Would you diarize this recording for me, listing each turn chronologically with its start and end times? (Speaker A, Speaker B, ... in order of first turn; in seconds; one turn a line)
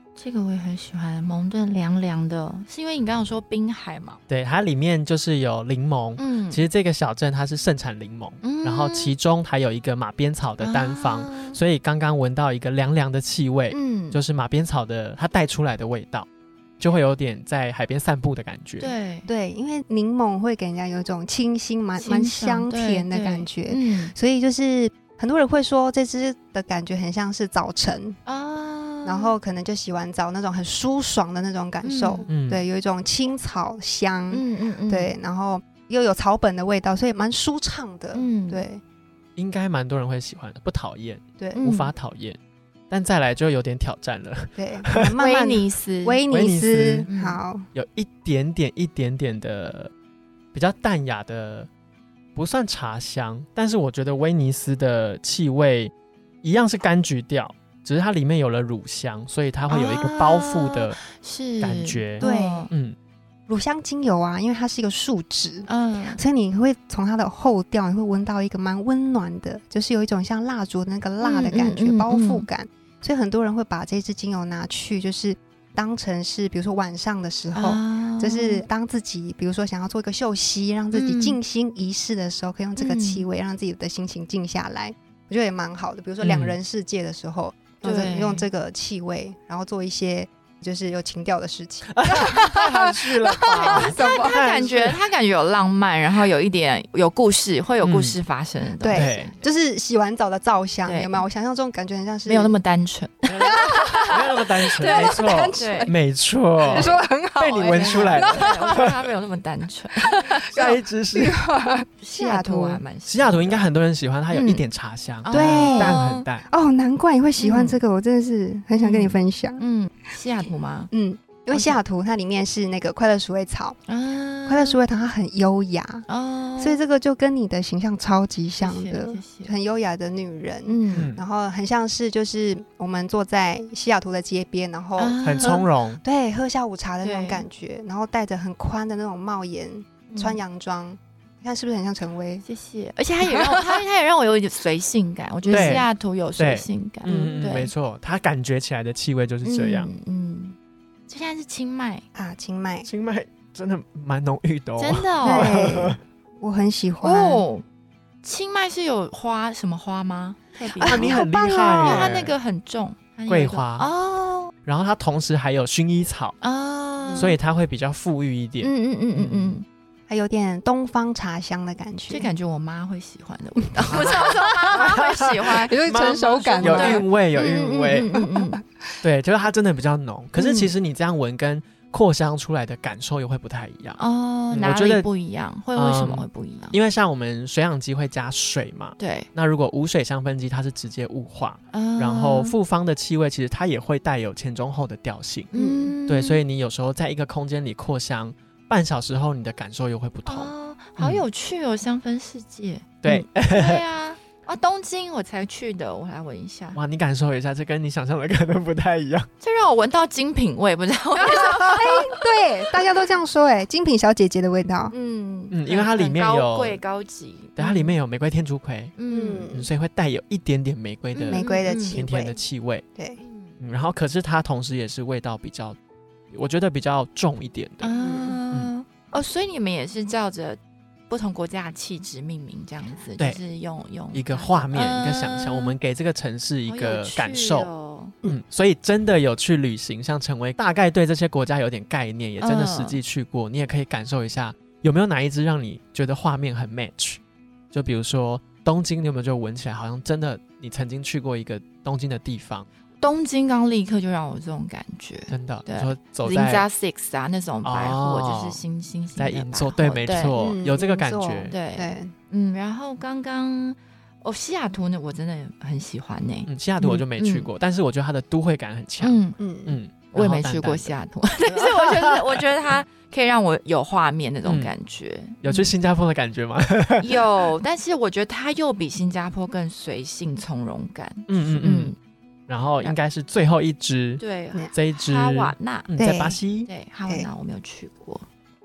Speaker A: 0.2-4.2
Speaker B: 4.3-16.3
Speaker A: 6.2-6.7
Speaker A: 8.4-9.1
Speaker A: 10.6-11.6
Speaker A: 13.7-14.2
Speaker B: 16.8-18.9
Speaker A: 18.8-19.3
Speaker C: 19.3-28.2
Speaker A: 22.0-24.1
Speaker A: 28.3-29.4
Speaker C: 29.0-38.8
Speaker A: 31.8-32.3
Speaker B: 32.3-32.6
Speaker A: 34.3-35.1
Speaker A: 38.1-38.6
Speaker B: 39.4-42.4
Speaker C: 41.4-41.6
Speaker A: 41.5-41.9
Speaker B: 42.9-45.1
Speaker C: 44.6-47.7
Speaker A: 45.2-46.2
Speaker B: 46.3-47.1
Speaker A: 47.1-47.4
Speaker B: 47.7-49.9
Speaker B: 50.5-51.7
Speaker B: 52.4-61.0
Speaker A: 59.7-62.7
Speaker B: 61.6-63.0
Speaker C: 62.2-62.7
Speaker C: 63.5-94.6
Speaker A: 65.7-66.2
Speaker A: 71.2-72.5
Speaker A: 77.5-78.6
Speaker A: 80.9-81.4
Speaker A: 82.8-83.3
Speaker B: 86.2-86.6
Speaker A: 87.8-88.5
Speaker B: 91.9-95.0
Speaker A: 93.5-99.3
Speaker B: 97.8-98.2
Speaker C: 98.8-102.5
Speaker B: 98.9-99.3
Speaker A: 100.8-101.2
Speaker A: 102.3-104.2
Speaker B: 103.3-108.9
Speaker C: 103.4-105.9
Speaker A: 104.8-105.9
Speaker A: 106.6-107.0
Speaker C: 106.7-108.9
Speaker A: 107.7-110.4
Speaker C: 110.1-112.8
Speaker B: 110.5-111.4
Speaker A: 112.0-113.7
Speaker B: 113.1-116.5
Speaker A: 114.3-114.6
Speaker A: 115.2-116.3
Speaker C: 115.3-119.6
Speaker A: 117.4-117.8
Speaker A: 118.8-120.9
Speaker C: 120.9-123.8
Speaker A: 121.5-121.8
Speaker A: 123.9-124.8
Speaker C: 124.5-126.1
Speaker A: 126.1-126.8
Speaker C: 126.6-142.4
Speaker A: 128.6-129.5
Speaker A: 130.7-131.1
Speaker B: 130.9-131.2
Speaker A: 135.0-135.6
Speaker B: 135.2-136.0
Speaker A: 137.0-137.5
Speaker A: 140.1-140.4
Speaker A: 142.4-147.7
Speaker C: 143.3-143.8
Speaker C: 145.4-145.8
Speaker B: 145.5-145.9
Speaker B: 146.4-149.9
Speaker C: 147.1-147.5
Speaker A: 149.4-150.6
Speaker A: 151.1-152.1
Speaker C: 152.2-152.9
Speaker B: 152.8-156.0
Speaker A: 154.8-155.6
Speaker C: 155.2-157.4
Speaker A: 157.0-157.7
Speaker A: 158.2-164.5
Speaker C: 160.7-162.2
Speaker B: 160.8-162.3
Speaker B: 163.3-163.9
Speaker B: 164.7-166.4
Speaker A: 166.4-167.4
Speaker C: 167.0-167.3
Speaker B: 167.2-169.6
Speaker A: 168.6-169.7
Speaker C: 170.1-172.3
Speaker A: 172.1-178.6
Speaker C: 173.9-174.8
Speaker B: 173.9-174.2
Speaker B: 174.8-178.1
Speaker C: 175.6-178.6
Speaker B: 179.0-184.0
Speaker C: 180.4-180.7
Speaker A: 184.0-186.8
Speaker B: 184.5-185.1
Speaker B: 185.8-195.5
Speaker A: 189.0-189.3
Speaker A: 191.7-192.6
Speaker A: 195.5-196.4
Speaker C: 195.5-195.9
Speaker B: 196.1-201.2
Speaker A: 200.2-206.8
Speaker B: 203.0-203.8
Speaker B: 206.8-209.3
Speaker A: 209.4-212.2
Speaker C: 211.2-214.9
Speaker A: 214.9-217.9
Speaker B: 215.5-216.8
Speaker B: 217.6-218.9
Speaker A: 219.0-219.5
Speaker C: 219.1-219.7
Speaker B: 219.5-222.8
Speaker A: 221.1-222.0
Speaker C: 221.3-222.4
Speaker C: 223.0-223.2
Speaker A: 223.2-223.6
Speaker B: 223.6-225.8
Speaker B: 226.3-227.9
Speaker A: 227.8-230.6
Speaker C: 228.0-228.4
Speaker A: 231.1-235.8
Speaker B: 234.1-237.7
Speaker A: 236.7-238.2
Speaker B: 238.2-247.2
Speaker A: 242.4-243.0
Speaker B: 247.7-252.7
Speaker A: 253.0-260.5
Speaker B: 255.3-256.7
Speaker B: 257.6-258.6
Speaker B: 259.2-261.5
Speaker C: 260.3-262.1
Speaker A: 261.5-267.5
Speaker B: 266.5-271.0
Speaker A: 269.0-269.4
Speaker C: 269.4-269.8
Speaker A: 270.1-275.7
Speaker B: 271.5-272.4
Speaker B: 274.4-274.7
Speaker B: 275.4-277.2
Speaker A: 277.0-282.0
Speaker B: 281.3-281.9
Speaker B: 282.5-286.7
Speaker A: 284.2-285.9
Speaker C: 286.0-286.4
Speaker A: 286.7-288.3